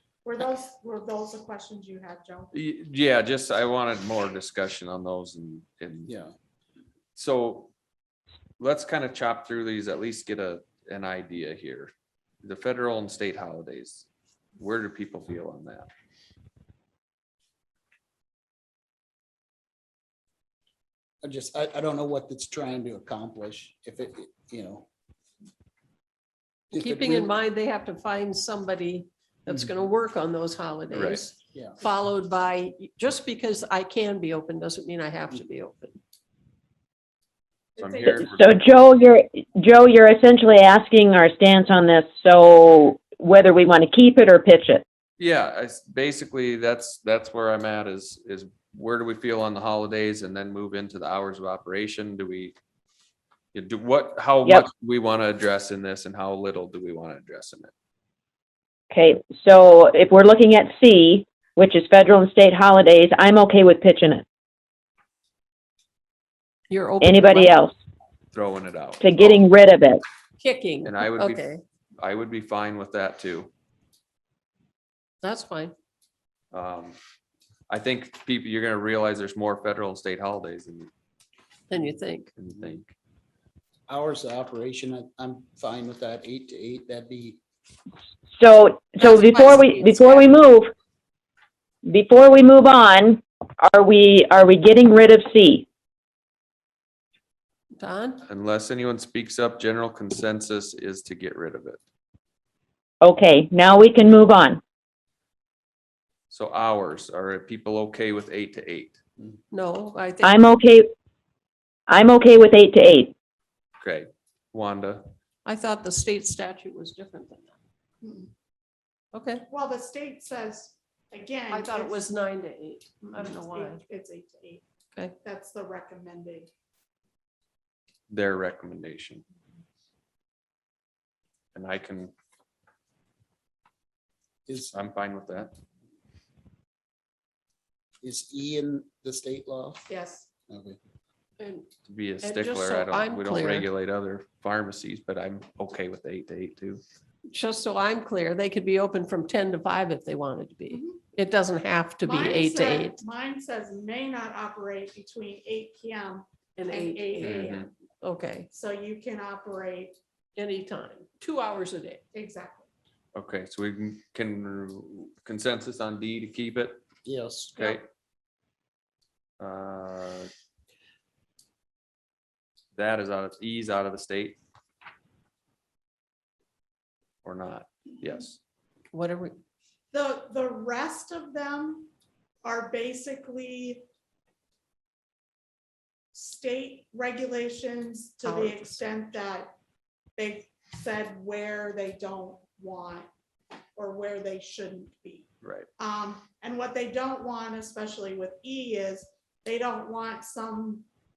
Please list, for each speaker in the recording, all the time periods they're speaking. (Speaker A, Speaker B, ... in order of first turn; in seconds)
Speaker A: 0.2-2.5, 37.8-38.5, 118.0-118.3, 119.5-122.1, 123.2-124.6, 125.2-126.5, 139.9-140.3, 150.7-151.0, 152.0-157.7, 158.5-160.0, 162.1-162.7, 179.9-181.9, 182.4-183.8, 186.1-189.5, 190.2-193.1, 193.8-195.3, 195.8-200.8
Speaker B: 2.5-6.1, 7.2-7.7, 8.6-11.9, 12.4-15.9, 30.9-31.3, 37.8-38.3, 45.2-52.5, 53.5-57.7, 68.3-69.1, 70.8-71.4, 72.0-73.5, 76.5-77.0, 77.7-80.9, 82.4-82.9, 98.3-101.8, 106.3-109.0, 113.8-115.1, 128.1-129.2, 131.5-132.1, 134.7-135.5, 141.9-146.8, 157.2-157.7, 163.1-166.8, 167.6-167.8, 169.4-170.3, 172.7-174.4, 177.2-178.4, 195.4-195.7
Speaker C: 6.0-6.3, 21.2-24.9, 26.7-27.3, 83.9-87.4, 134.5-134.7, 138.0-139.9, 140.5-140.8, 167.0-167.6
Speaker D: 26.8-36.0, 66.7-67.5, 70.4-71.6, 75.2-75.7, 81.7-82.3, 89.0-90.3, 97.8-98.2, 109.5-110.6, 115.4-117.6, 119.1-119.5, 121.5-123.8, 141.4-141.7, 142.2-143.7, 147.3-153.0, 156.6-158.5, 160.3-162.0, 178.9-179.4, 188.2-188.8
Speaker E: 38.0-44.8, 58.9-64.2, 67.0-67.7, 69.0-70.0, 88.4-90.7, 91.8-95.6, 103.0-104.6, 110.2-110.9, 111.9-113.1